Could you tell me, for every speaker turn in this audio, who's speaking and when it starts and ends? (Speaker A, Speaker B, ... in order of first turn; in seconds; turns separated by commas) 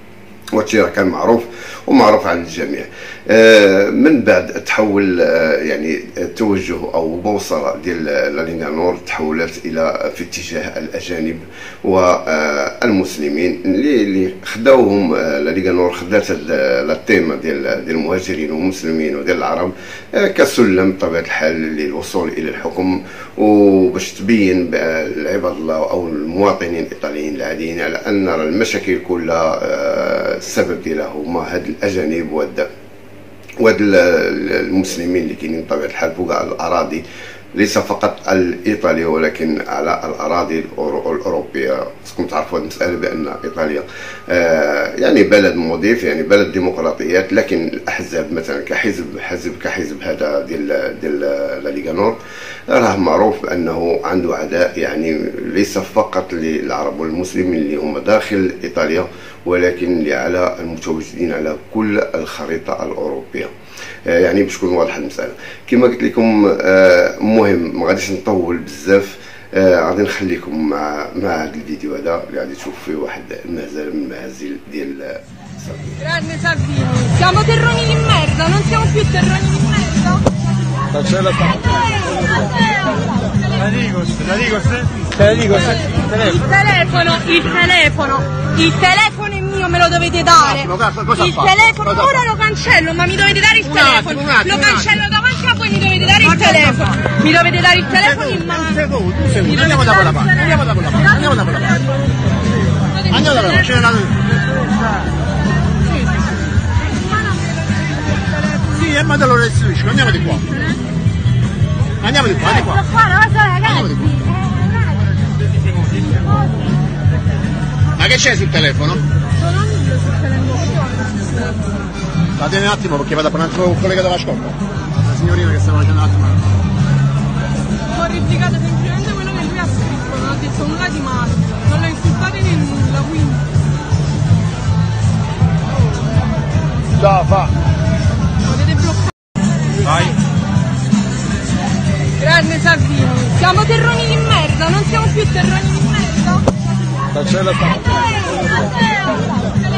Speaker A: 0.5-32.7, Speaker A: 33.6-37.0, Speaker A: 37.5-52.2, Speaker A: 52.7-63.5, Speaker A: 64.1-76.1, Speaker B: 76.1-84.7, Speaker B: 85.3-90.6, Speaker C: 90.4-92.2, Speaker B: 91.3-98.7, Speaker C: 93.6-95.0, Speaker C: 96.1-96.9, Speaker C: 97.9-101.8, Speaker C: 103.1-104.2, Speaker C: 108.7-110.5, Speaker C: 112.0-113.0, Speaker B: 113.3-113.7, Speaker C: 113.6-114.2, Speaker C: 117.9-119.0, Speaker B: 119.5-121.3, Speaker C: 122.4-126.4, Speaker B: 127.9-133.4, Speaker B: 138.5-139.1, Speaker B: 142.2-146.4